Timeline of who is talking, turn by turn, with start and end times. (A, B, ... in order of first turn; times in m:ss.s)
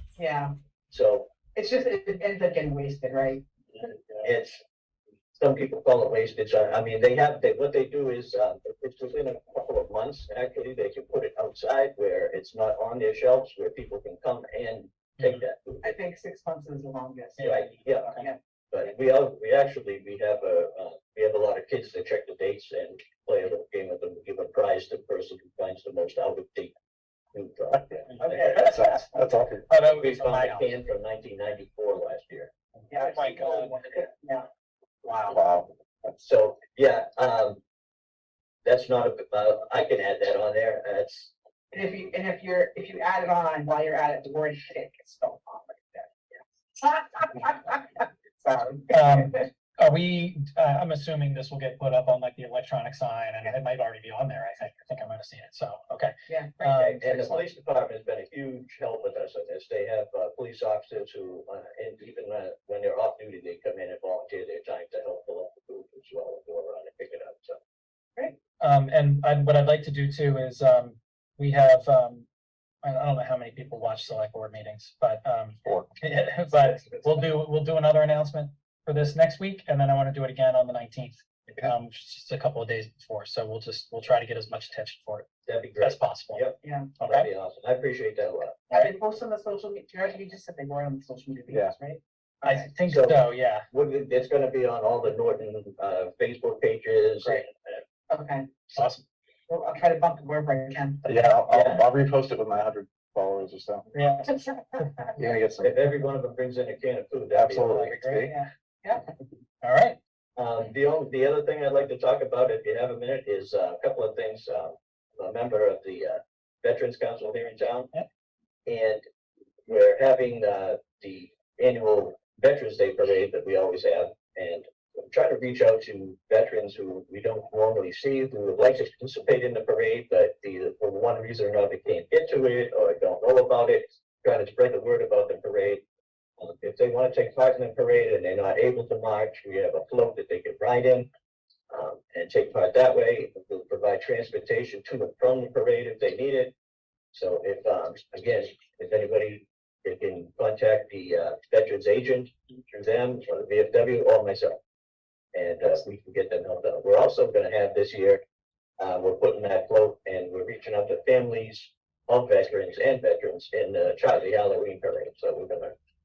0:00.2-0:00.5 A
0:00.9-0:01.3 B
0:01.5-0:03.4 A
0:04.2-0:04.6 B
0:05.3-0:15.9 B
0:15.8-0:18.4 A
0:17.4-0:18.3 C
0:17.4-0:18.1 B
0:18.7-0:26.7 B
0:27.3-0:28.7 B
0:28.1-0:29.1 C
0:28.5-0:29.6 D
0:29.7-0:30.7 C
0:29.7-0:32.5 B
0:32.9-0:34.5 A
0:33.0-0:33.8 C
0:35.0-0:35.4 A
0:35.3-0:36.2 D
0:36.2-0:37.6 B
0:38.6-0:41.3 B
0:41.7-0:49.4 A
0:48.9-0:57.4 C
0:56.3-0:56.6 A
0:56.6-1:07.6 B
1:08.6-1:12.2 C
1:12.8-1:26.4 C
1:25.4-1:28.7 B
1:26.6-1:26.9 A
1:27.0-1:27.3 C
1:28.7-1:32.7 A
1:31.5-1:31.7 D
1:32.4-1:33.7 C
1:32.9-1:37.8 B
1:38.1-1:38.5 A
1:38.7-1:39.0 C
1:39.5-1:41.0 A
1:41.0-1:43.8 D
1:41.5-1:41.8 B
1:43.9-1:44.3 C
1:44.3-1:45.1 A
1:45.2-1:45.7 D
1:45.6-1:47.9 B
1:47.3-1:48.4 D
1:47.7-1:48.3 C
1:48.2-1:49.0 A
1:49.6-1:50.0 C
1:50.4-1:57.9 B
1:58.6-1:59.0 B
1:59.7-2:15.8 B
2:16.4-2:21.1 B
2:21.7-2:26.5 B
2:27.1-2:34.6 B
2:35.3-2:38.2 B
2:38.8-2:45.7 B